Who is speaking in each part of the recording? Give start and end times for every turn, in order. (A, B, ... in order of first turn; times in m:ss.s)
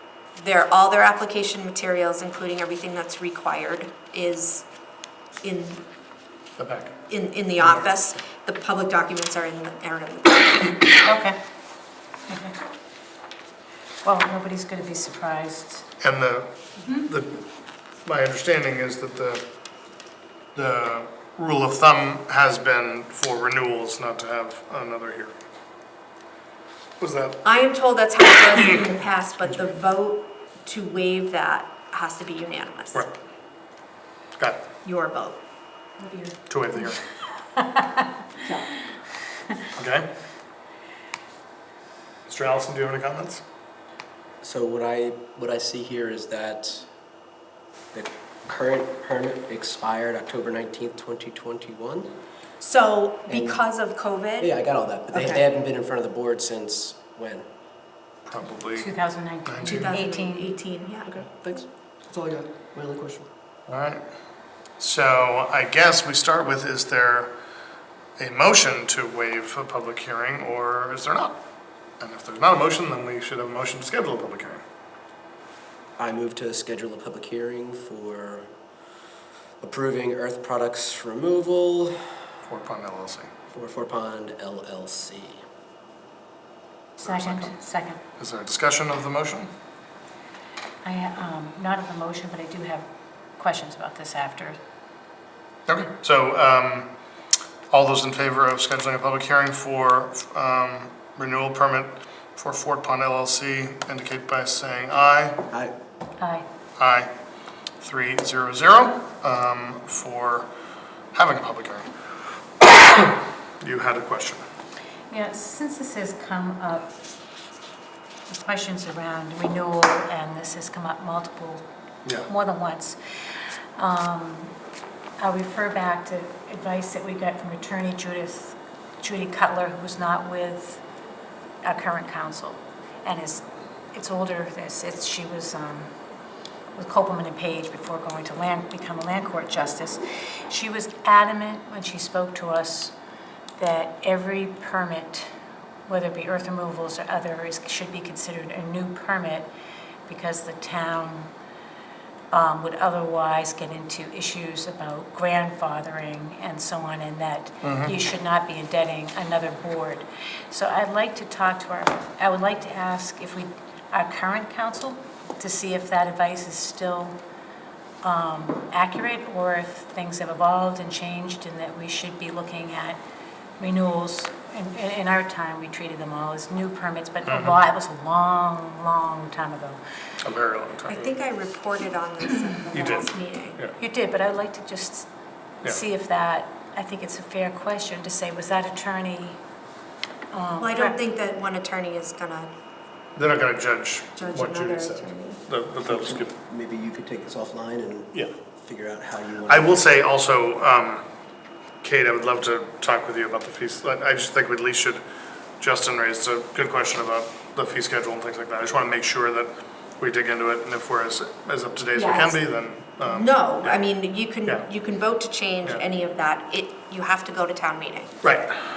0:00.4-0:04.7 A
0:05.4-0:05.8 A
0:06.6-0:06.9 B
0:07.1-0:10.8 A
0:11.0-0:11.4 C
0:12.3-0:12.6 C
0:14.0-0:15.8 C
0:16.0-0:17.4 B
0:16.8-0:17.1 C
0:18.0-0:19.4 B
0:20.5-0:25.4 B
0:27.0-0:27.4 B
0:27.4-0:33.0 A
0:34.8-0:35.4 A
0:36.0-0:37.0 C
0:36.5-0:37.0 B
0:37.5-0:38.0 C
0:39.8-0:40.1 B
0:42.2-0:43.4 B
0:44.4-0:46.9 D
0:47.9-0:52.1 D
0:52.6-0:54.5 A
0:53.3-0:53.6 D
0:54.4-0:57.4 D
0:55.1-0:55.4 A
0:58.2-0:58.9 B
0:58.8-1:00.5 C
0:59.4-0:59.9 B
0:59.6-1:01.2 A
1:01.1-1:03.3 D
1:03.7-1:04.0 B
1:04.8-1:07.3 B
1:08.2-1:11.4 B
1:12.0-1:14.6 B
1:16.0-1:18.5 D
1:19.6-1:22.1 D
1:22.4-1:23.3 B
1:23.5-1:25.4 D
1:27.0-1:27.5 B
1:27.0-1:28.0 C
1:28.2-1:29.5 B
1:30.8-1:34.6 C
1:35.7-1:36.9 B
1:37.7-1:45.4 B
1:46.2-1:46.4 C
1:46.8-1:47.1 B
1:47.8-1:50.5 B
1:51.1-1:51.9 B
1:52.6-1:54.4 B
1:55.1-1:56.9 C
1:58.3-2:01.6 C
2:02.3-2:03.0 C
2:03.7-2:04.5 C
2:05.2-2:10.8 C
2:11.6-2:15.9 C
2:16.7-2:22.9 C
2:23.6-2:25.3 C
2:25.8-2:29.5 C
2:30.1-2:31.3 C
2:32.3-2:47.2 C
2:37.6-2:37.9 B
2:48.0-2:53.0 C
2:53.6-2:59.8 C
2:57.2-2:57.6 B
3:00.2-3:01.1 B
3:00.9-3:03.6 A
3:02.7-3:03.7 B
3:03.8-3:05.1 C
3:05.6-3:09.4 C
3:10.3-3:11.0 C
3:10.6-3:12.5 A
3:13.2-3:16.3 B
3:14.2-3:15.4 A
3:15.8-3:19.9 D
3:19.4-3:21.0 B
3:21.8-3:25.0 B
3:25.6-3:33.9 B
3:31.9-3:32.4 A
3:33.0-3:38.2 A
3:38.2-3:38.6 B